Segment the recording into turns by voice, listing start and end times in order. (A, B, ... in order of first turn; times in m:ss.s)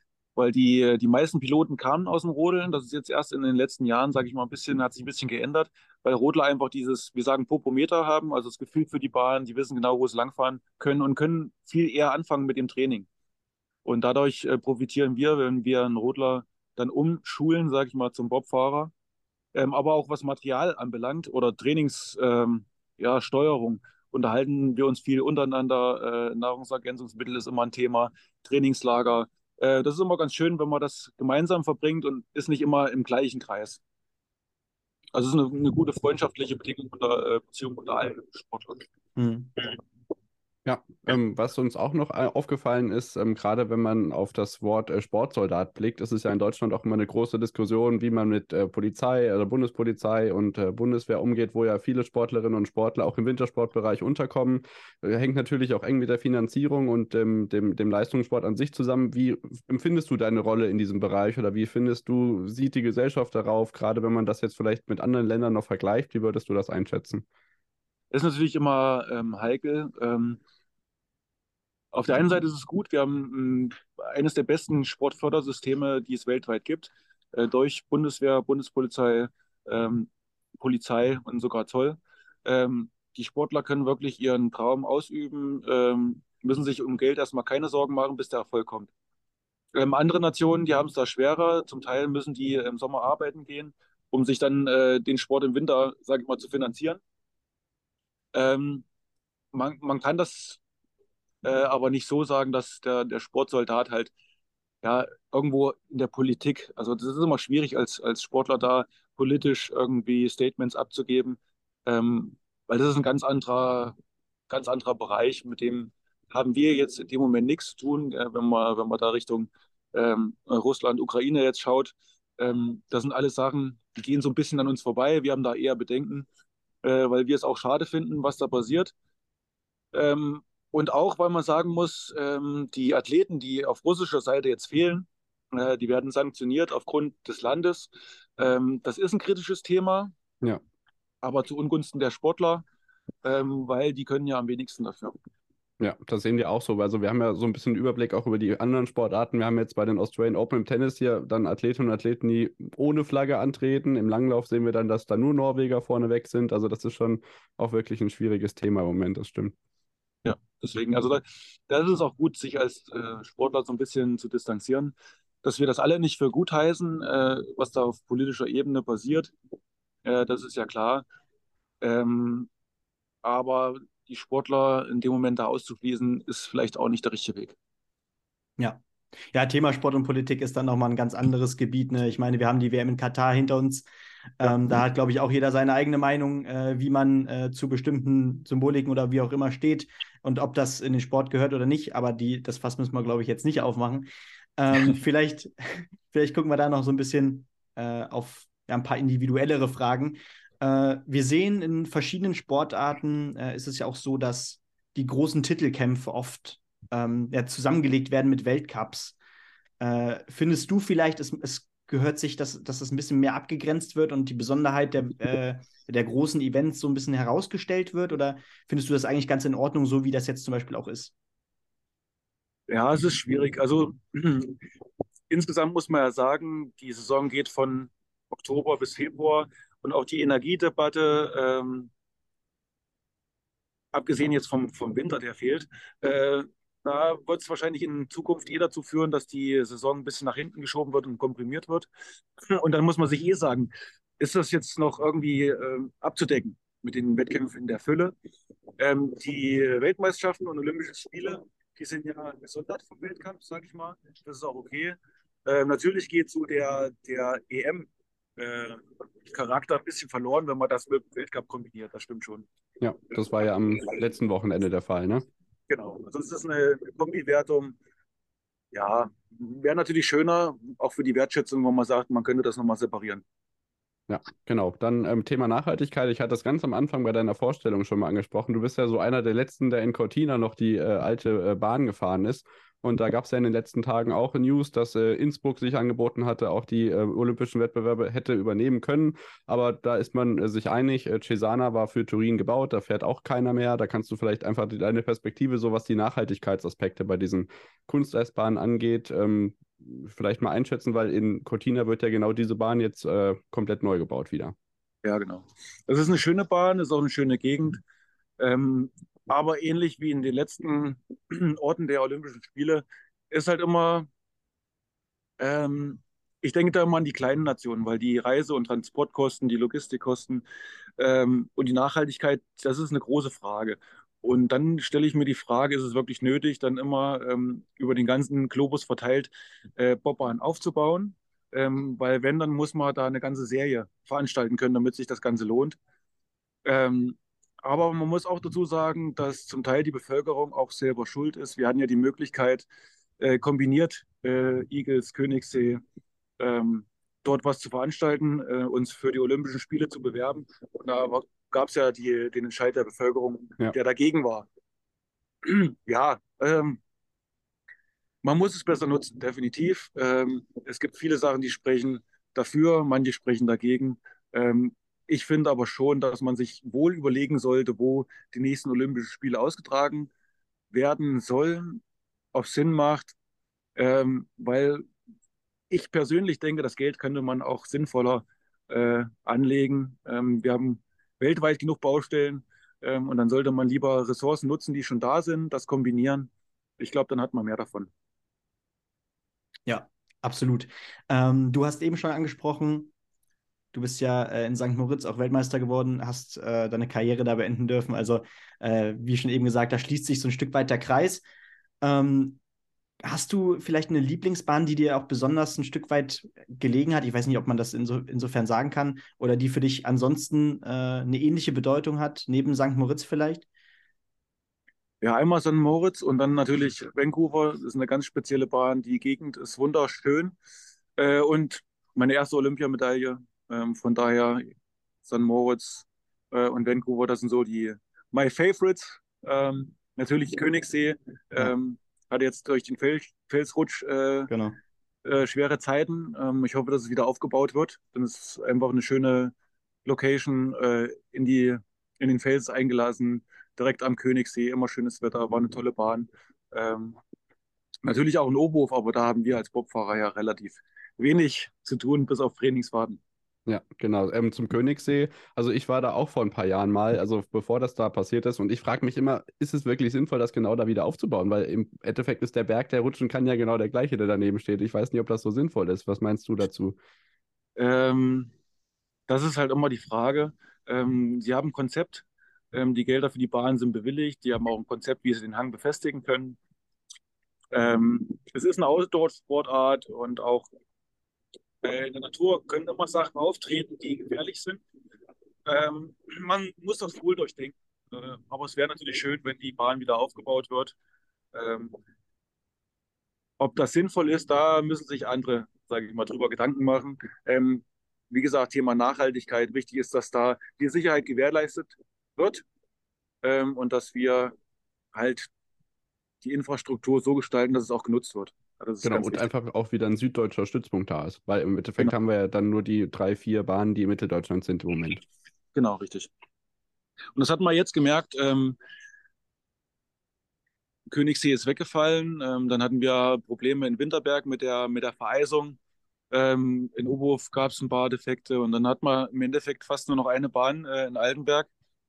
0:00.4-0:13.1 A
0:13.8-0:18.9 A
0:19.5-0:33.8 A
0:35.1-0:38.9 A
0:39.2-0:39.5 B
0:40.6-1:07.2 C
1:08.1-1:10.4 A
1:11.9-1:20.1 A
1:20.6-1:28.9 A
1:29.7-1:37.0 A
1:38.3-1:38.8 A
1:39.5-1:40.6 A
1:41.4-1:44.1 A
1:44.8-1:53.9 A
1:54.5-2:06.3 A
2:06.8-2:08.9 A
2:09.9-2:20.1 A
2:21.2-2:22.6 A
2:23.2-2:25.2 A
2:25.8-2:39.5 C
2:40.2-2:49.3 A
2:50.0-2:51.0 A
2:51.8-2:52.5 A
2:53.2-2:57.6 A
2:59.3-3:03.9 B
3:04.4-3:29.2 B
3:29.8-3:41.1 B
3:42.7-3:44.6 A
3:45.3-3:51.9 A
3:53.9-4:01.9 A
4:02.5-4:08.1 A
4:08.8-4:22.4 A
4:22.8-4:25.2 C
4:25.7-4:27.8 A
4:28.7-4:33.2 A
4:34.1-5:04.5 C
5:05.0-5:07.8 A
5:08.4-5:14.1 A
5:15.4-5:20.4 A
5:21.0-5:35.8 A
5:36.6-5:42.6 A
5:43.2-5:45.8 A
5:46.4-5:54.5 A
5:55.4-5:56.8 A
5:58.2-6:10.1 A
6:10.7-6:11.8 A
6:12.3-6:13.1 A
6:13.8-6:14.8 A
6:15.7-6:27.9 A
6:29.7-6:32.9 B
6:33.7-6:41.2 B
6:41.8-6:42.4 B
6:43.0-6:53.4 B
6:55.0-7:00.3 A
7:01.0-7:04.5 A
7:05.0-7:14.3 A
7:14.3-7:14.6 B
7:15.0-7:19.3 A
7:19.8-7:27.0 A
7:27.8-7:33.0 A
7:33.5-7:46.8 C
7:47.6-7:48.3 A
7:49.1-7:56.4 A
7:57.5-8:00.5 A
8:01.6-8:04.6 A
8:05.4-8:10.7 A
8:11.3-8:11.8 A
8:13.4-8:22.4 A
8:23.2-8:24.3 A
8:24.9-8:25.3 A
8:26.2-8:29.2 A
8:28.8-8:35.0 C
8:35.5-8:36.1 A
8:37.2-8:38.6 A
8:40.9-8:45.6 A
8:46.1-8:51.5 A